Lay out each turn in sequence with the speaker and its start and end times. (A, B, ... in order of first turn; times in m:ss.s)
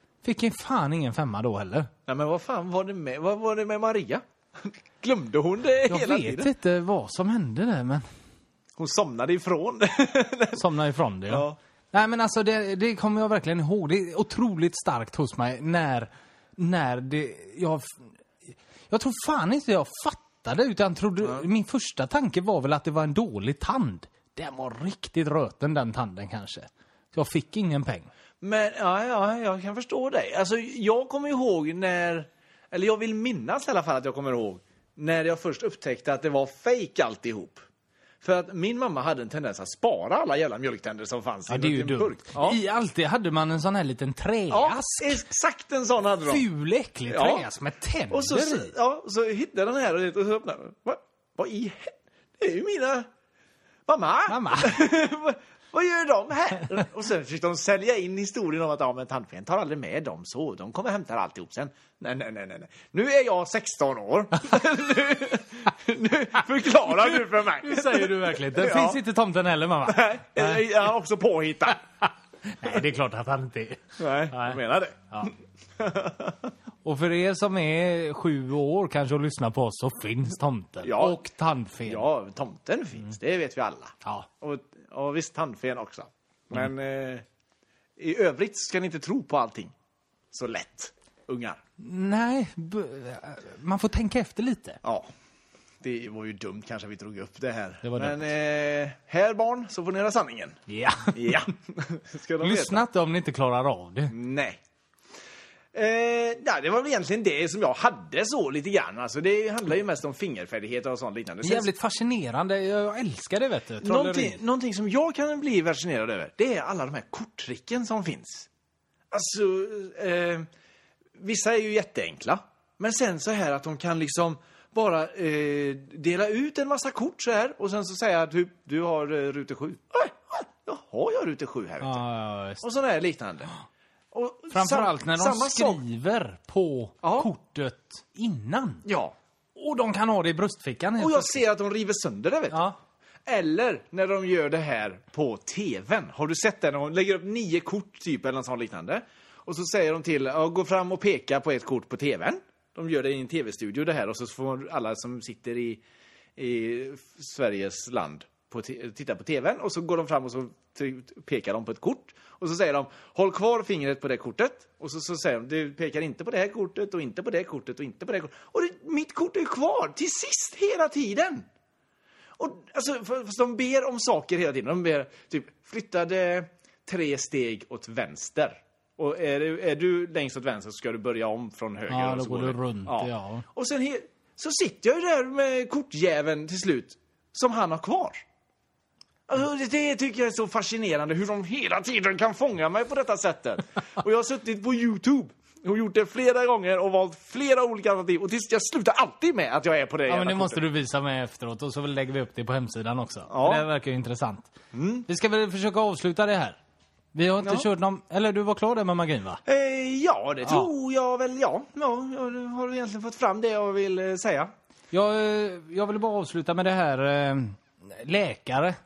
0:00.2-0:01.9 A
0:02.1-0:06.5 B
0:05.9-0:08.0 A
0:08.8-0:10.6 B
0:10.5-0:28.1 A
0:11.3-0:11.6 B
0:28.4-0:37.6 B
0:38.2-0:42.6 B
0:41.5-0:45.2 A
0:44.5-0:46.5 B
0:46.2-0:48.7 A
0:47.1-0:47.5 B
0:48.1-0:53.1 B
0:53.9-1:09.0 B
0:54.3-0:54.8 A
1:07.6-1:10.6 A
1:09.9-1:11.8 B
1:12.5-1:14.6 A
1:14.0-1:16.5 B
1:16.8-1:22.0 A
1:20.8-1:21.2 B
1:21.9-1:27.2 B
1:28.0-1:29.7 B
1:30.3-1:31.6 B
1:31.8-1:34.8 A
1:34.8-1:35.1 B
1:35.8-1:40.6 B
1:37.8-1:38.2 A
1:40.7-1:41.4 A
1:41.1-1:42.8 B
1:42.4-1:44.1 A
1:44.1-1:44.6 B
1:45.7-1:51.7 B
1:51.4-1:54.4 A
1:53.8-1:58.5 B
1:59.1-2:00.5 B
2:01.2-2:12.0 B
2:11.8-2:12.6 A
2:12.6-2:13.5 B
2:14.1-2:15.8 B
2:14.5-2:18.9 A
2:17.0-2:17.3 B
2:18.8-2:19.1 B
2:19.6-2:21.4 A
2:21.0-2:22.6 B
2:22.5-2:22.8 A
2:23.3-2:35.8 B
2:36.4-2:51.5 B
2:52.4-3:08.2 B
3:01.9-3:03.4 A
3:09.3-3:20.6 B
3:20.1-3:24.5 A
3:23.3-3:23.7 B
3:24.7-3:25.1 B
3:25.1-3:26.6 A
3:27.1-3:29.4 A
3:29.4-3:34.5 B
3:34.9-3:38.8 A